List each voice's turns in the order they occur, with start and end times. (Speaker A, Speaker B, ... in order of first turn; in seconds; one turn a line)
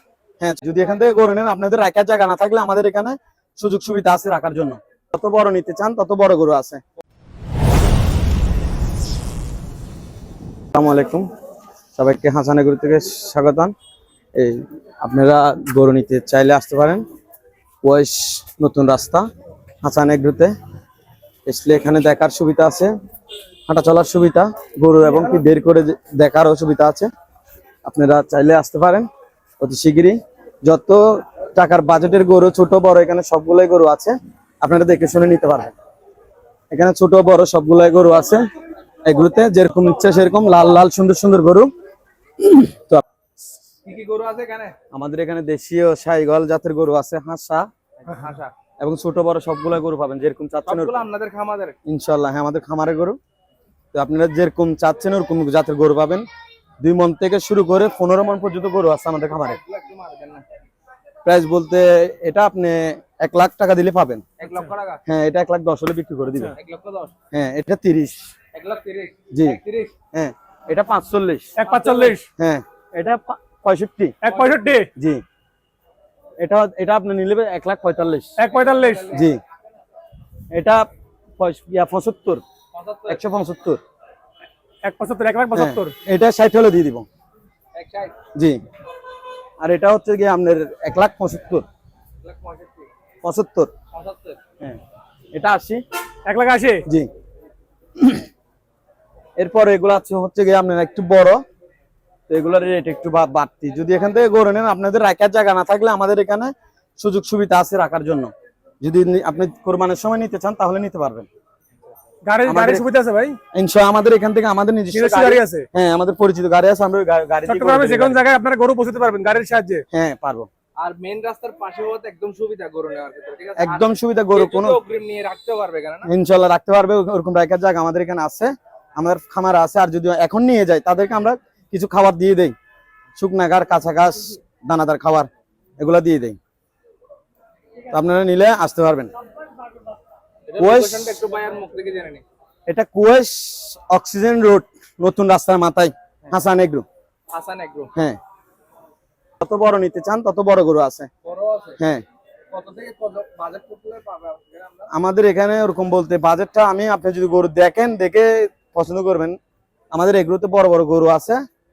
Speaker A: 0.4-6.8
Speaker A: 10.7-11.2
Speaker A: 11.9-13.7
Speaker A: 14.3-17.0
Speaker A: 17.8-19.2
Speaker A: 19.8-20.5
Speaker A: 21.4-22.9
Speaker A: 23.7-27.1
Speaker A: 27.8-29.1
Speaker A: 29.6-31.0
Speaker A: 31.6-35.7
Speaker A: 36.7-38.4
Speaker A: 39.0-41.7
Speaker A: 42.4-43.0
Speaker B: 43.8-44.8
Speaker A: 44.9-47.7
Speaker B: 48.0-48.5
Speaker A: 48.8-51.0
Speaker B: 50.7-51.8
Speaker A: 51.9-53.2
Speaker A: 53.9-56.2
Speaker A: 56.8-59.6
Speaker B: 59.3-60.4
Speaker A: 61.2-64.2
Speaker B: 64.4-65.0
Speaker A: 65.1-66.5
Speaker B: 66.5-67.1
Speaker A: 67.3-68.2
Speaker B: 68.5-69.9
Speaker A: 69.3-69.6
Speaker A: 70.1-71.5
Speaker C: 71.5-72.3
Speaker B: 71.6-72.2
Speaker A: 72.4-74.1
Speaker C: 74.2-74.9
Speaker B: 74.3-74.5
Speaker A: 75.0-75.2
Speaker A: 76.4-78.3
Speaker C: 78.4-79.1
Speaker B: 78.5-79.3
Speaker A: 79.1-79.4
Speaker A: 80.5-80.8
Speaker A: 81.4-82.4
Speaker B: 82.7-83.2
Speaker A: 83.1-83.8
Speaker C: 84.8-85.9
Speaker A: 85.5-87.0
Speaker B: 87.8-88.2
Speaker A: 89.6-91.6
Speaker B: 92.2-92.9
Speaker A: 93.2-93.7
Speaker B: 93.9-94.4
Speaker A: 95.3-95.8
Speaker C: 96.2-96.8
Speaker A: 98.0-98.2
Speaker A: 99.4-101.4
Speaker A: 102.3-111.3
Speaker C: 112.2-113.4
Speaker A: 112.5-112.8
Speaker A: 113.5-118.2
Speaker C: 114.9-115.7
Speaker C: 117.5-119.8
Speaker A: 119.9-120.5
Speaker B: 120.8-126.1
Speaker A: 123.6-124.8
Speaker A: 126.1-132.6
Speaker A: 133.2-136.4
Speaker A: 137.9-139.1
Speaker B: 140.5-142.2
Speaker A: 140.6-141.2
Speaker A: 142.7-146.9
Speaker B: 147.3-147.9
Speaker A: 149.4-151.1
Speaker B: 151.2-151.8
Speaker A: 151.8-152.0
Speaker B: 152.5-154.9
Speaker A: 154.9-159.4
Speaker A: 159.9-161.4